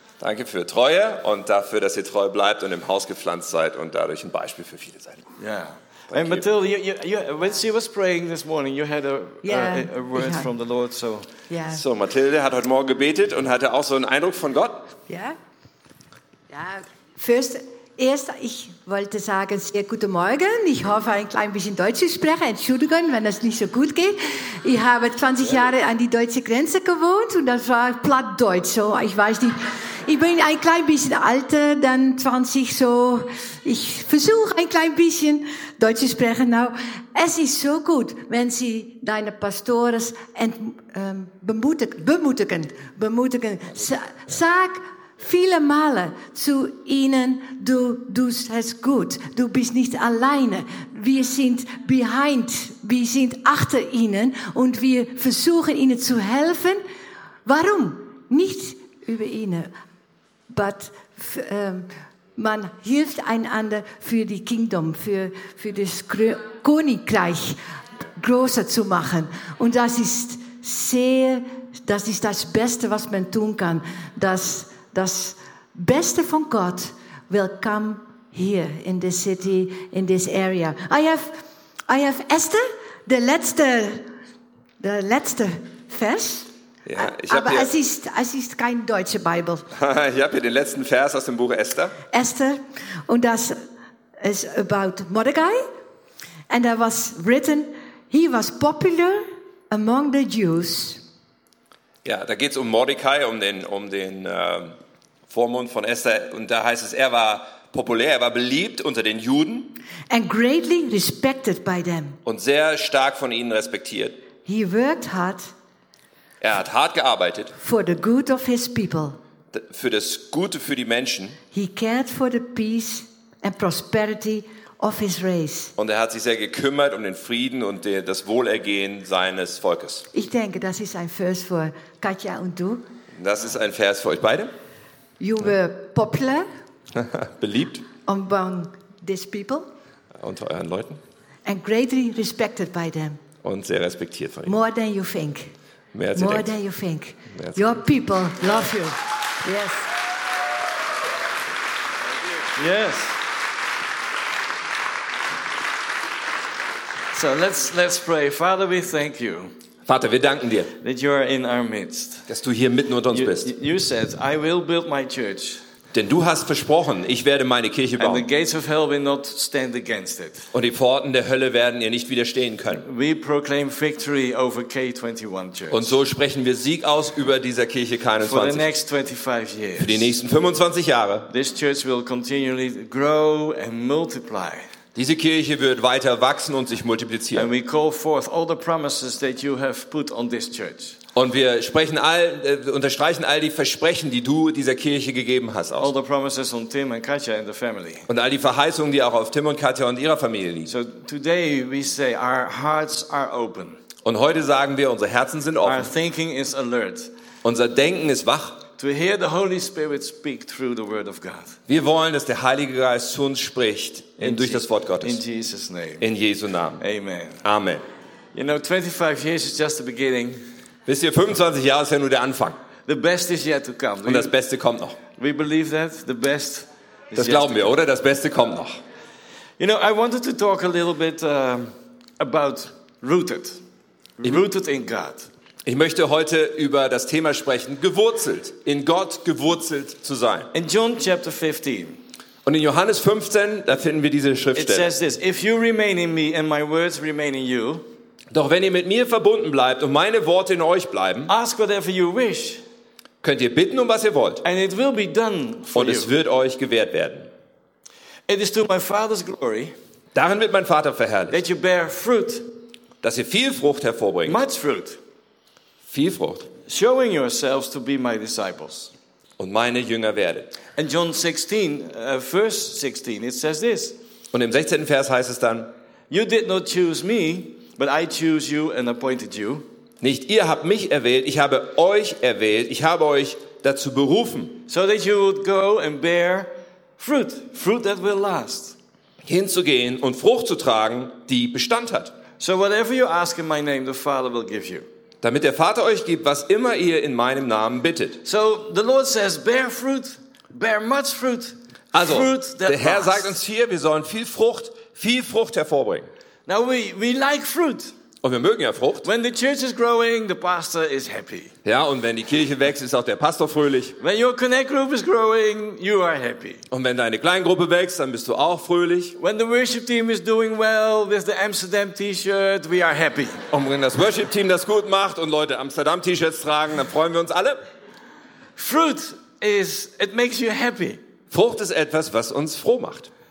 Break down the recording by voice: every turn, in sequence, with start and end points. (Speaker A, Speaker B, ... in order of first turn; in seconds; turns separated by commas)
Speaker A: 0.2-5.3, Speaker B: 5.4-11.3, Speaker A: 6.1-6.5, Speaker C: 9.4-10.5, Speaker C: 11.5-11.8, Speaker A: 11.7-14.9, Speaker C: 15.1-15.4, Speaker C: 16.5-56.8, Speaker C: 57.5-59.7, Speaker C: 60.5-67.6, Speaker C: 68.2-84.1, Speaker C: 84.8-89.7, Speaker A: 86.8-87.7, Speaker A: 89.7-92.0, Speaker C: 92.1-93.6, Speaker C: 94.2-95.7, Speaker C: 96.5-101.0, Speaker A: 102.0-104.7, Speaker A: 105.3-109.8, Speaker C: 110.1-112.2, Speaker A: 112.2-114.2, Speaker C: 114.5-115.5, Speaker A: 116.4-117.5, Speaker C: 117.6-119.2, Speaker A: 119.5-121.4, Speaker C: 121.5-125.7, Speaker A: 125.8-130.1, Speaker C: 130.1-132.8, Speaker A: 133.1-134.5, Speaker C: 135.2-136.5, Speaker A: 136.9-137.8, Speaker C: 138.0-139.7, Speaker A: 140.2-141.0, Speaker C: 141.4-143.2, Speaker A: 143.4-144.5, Speaker C: 144.4-145.5, Speaker A: 145.9-146.5, Speaker C: 146.1-149.9, Speaker A: 147.3-147.6, Speaker B: 152.5-153.2, Speaker B: 157.1-159.5, Speaker A: 159.9-160.7, Speaker B: 160.8-162.3, Speaker A: 162.3-163.5, Speaker B: 163.1-165.6, Speaker A: 165.9-168.2, Speaker B: 168.0-170.5, Speaker A: 170.5-172.9, Speaker B: 172.8-175.9, Speaker A: 175.7-178.7, Speaker B: 178.2-180.1, Speaker A: 179.8-181.3, Speaker B: 181.3-184.6, Speaker A: 184.9-187.5, Speaker B: 187.3-191.0, Speaker A: 191.1-195.9, Speaker B: 195.8-198.1, Speaker A: 198.1-200.7, Speaker B: 200.7-203.8, Speaker A: 204.0-205.9, Speaker B: 205.6-207.1, Speaker A: 207.4-208.6, Speaker B: 208.8-211.6, Speaker A: 211.7-215.2, Speaker B: 214.2-216.0, Speaker A: 216.0-216.8, Speaker B: 216.8-217.4, Speaker A: 217.4-217.8, Speaker B: 218.3-220.4, Speaker A: 220.8-222.6, Speaker B: 222.9-224.3, Speaker A: 224.0-225.0, Speaker B: 225.2-227.7, Speaker A: 227.1-228.8, Speaker B: 229.6-233.6, Speaker B: 234.2-235.3, Speaker A: 235.6-240.5, Speaker B: 240.5-242.0, Speaker A: 242.4-244.9, Speaker B: 244.5-247.9, Speaker A: 248.3-251.3, Speaker B: 251.3-252.6, Speaker A: 253.2-254.4, Speaker B: 254.4-256.1, Speaker A: 255.7-257.3, Speaker B: 258.3-259.7, Speaker A: 260.1-261.4, Speaker B: 261.3-262.5, Speaker A: 263.0-264.4, Speaker B: 264.2-265.0, Speaker A: 265.9-266.5, Speaker B: 266.6-268.9, Speaker A: 269.4-270.6, Speaker B: 270.8-274.0, Speaker A: 274.3-275.7, Speaker B: 276.1-279.7, Speaker A: 280.0-284.6, Speaker B: 284.7-288.8, Speaker A: 289.2-292.1, Speaker B: 292.4-294.9, Speaker A: 295.2-298.2, Speaker B: 298.2-303.3, Speaker A: 301.9-306.1, Speaker B: 306.5-307.9, Speaker A: 308.2-309.1, Speaker B: 309.0-311.5, Speaker A: 311.6-314.0, Speaker B: 314.0-316.6, Speaker A: 316.7-319.1, Speaker B: 319.2-323.4, Speaker A: 323.5-327.6, Speaker B: 328.6-331.0, Speaker A: 331.3-333.1